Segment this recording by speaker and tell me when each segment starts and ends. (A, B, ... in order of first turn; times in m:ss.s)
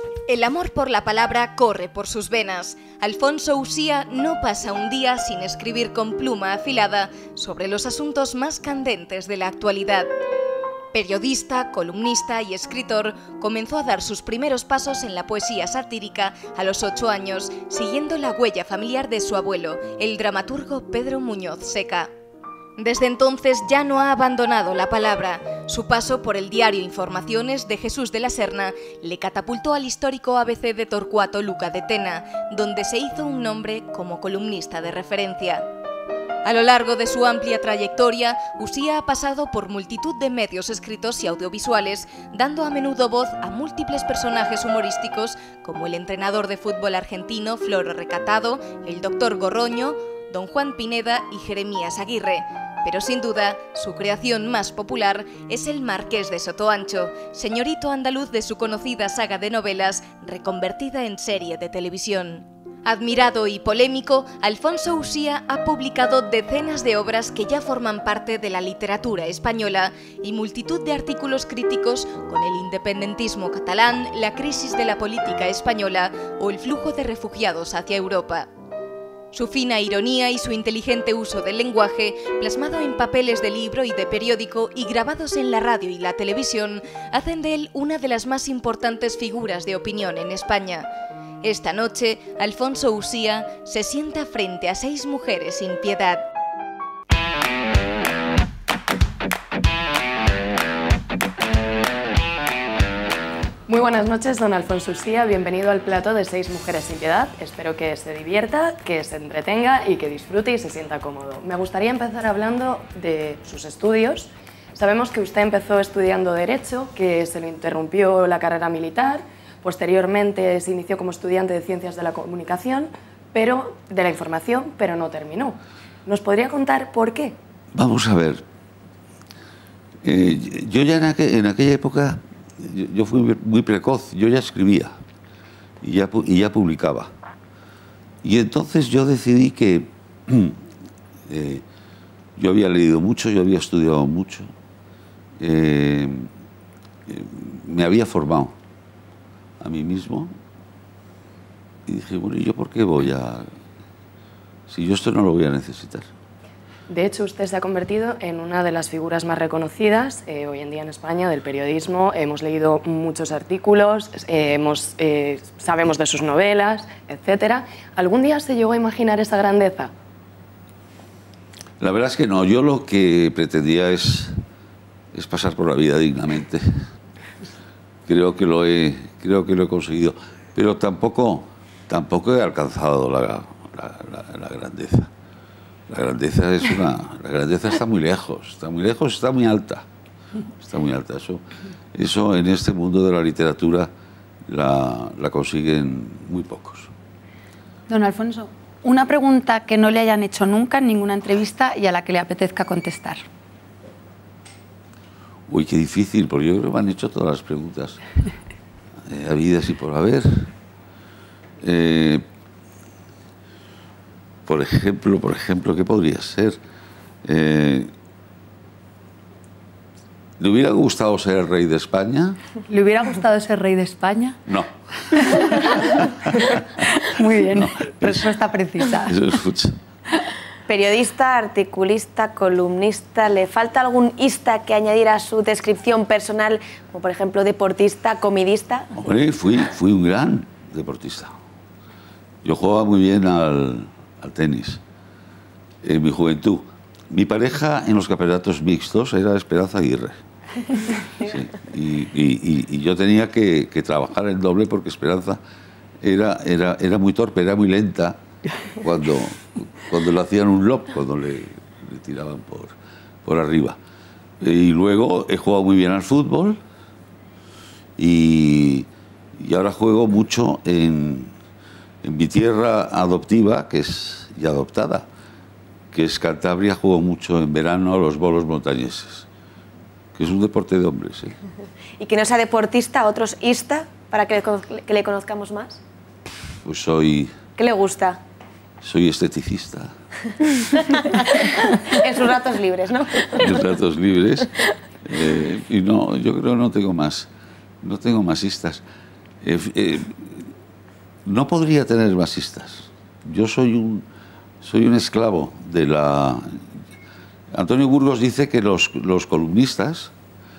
0:00.3-0:10.1 A
0:10.9-0:22.1 A
0:22.8-0:35.7 A
0:36.4-1:18.5 A
1:19.3-1:30.9 A
1:31.4-1:36.3 A
1:43.7-2:07.4 B
2:07.7-2:08.4 C
2:10.0-2:14.9 C
2:15.8-2:17.1 C
2:18.2-2:20.6 C
2:21.3-2:21.6 C
2:22.4-2:24.5 C
2:25.4-2:26.3 C
2:27.1-2:28.5 C
2:29.6-2:30.3 C
2:31.9-2:33.5 C
2:34.7-2:36.1 C
2:36.9-2:49.9 B
2:51.8-2:54.4 C
2:55.1-2:56.8 C
2:58.1-3:05.1 C
3:05.9-3:09.8 C
3:10.6-3:11.4 C
3:11.9-3:13.9 C
3:14.5-3:16.9 C
3:17.9-3:23.2 D
3:25.5-3:28.0 C
3:29.1-3:30.5 C
3:31.6-3:32.2 C
3:34.4-3:36.6 C
3:37.2-3:37.9 C
3:40.4-3:42.4 C
3:42.7-3:44.4 D
3:44.5-3:46.5 C
3:45.1-3:49.2 D
3:47.5-3:48.3 C
3:49.0-3:49.8 C
3:50.7-3:58.9 E
3:59.0-4:01.3 C
4:02.4-4:04.8 C
4:05.8-4:10.2 C
4:11.2-4:15.4 C
4:16.0-4:18.2 C
4:18.8-4:23.8 C
4:24.4-4:26.6 C
4:28.0-4:31.3 C
4:32.0-4:35.1 C
4:35.9-4:39.2 C
4:40.1-4:41.4 C
4:42.0-4:45.8 E
4:46.6-4:47.3 C
4:47.6-4:48.2 E
4:48.8-4:49.9 C
4:50.8-4:53.5 E
4:53.4-4:54.5 C
4:55.0-4:57.3 C
4:57.8-4:58.8 C
4:59.4-5:00.4 C
5:01.2-5:04.0 C
5:04.6-5:06.6 C
5:07.5-5:10.1 C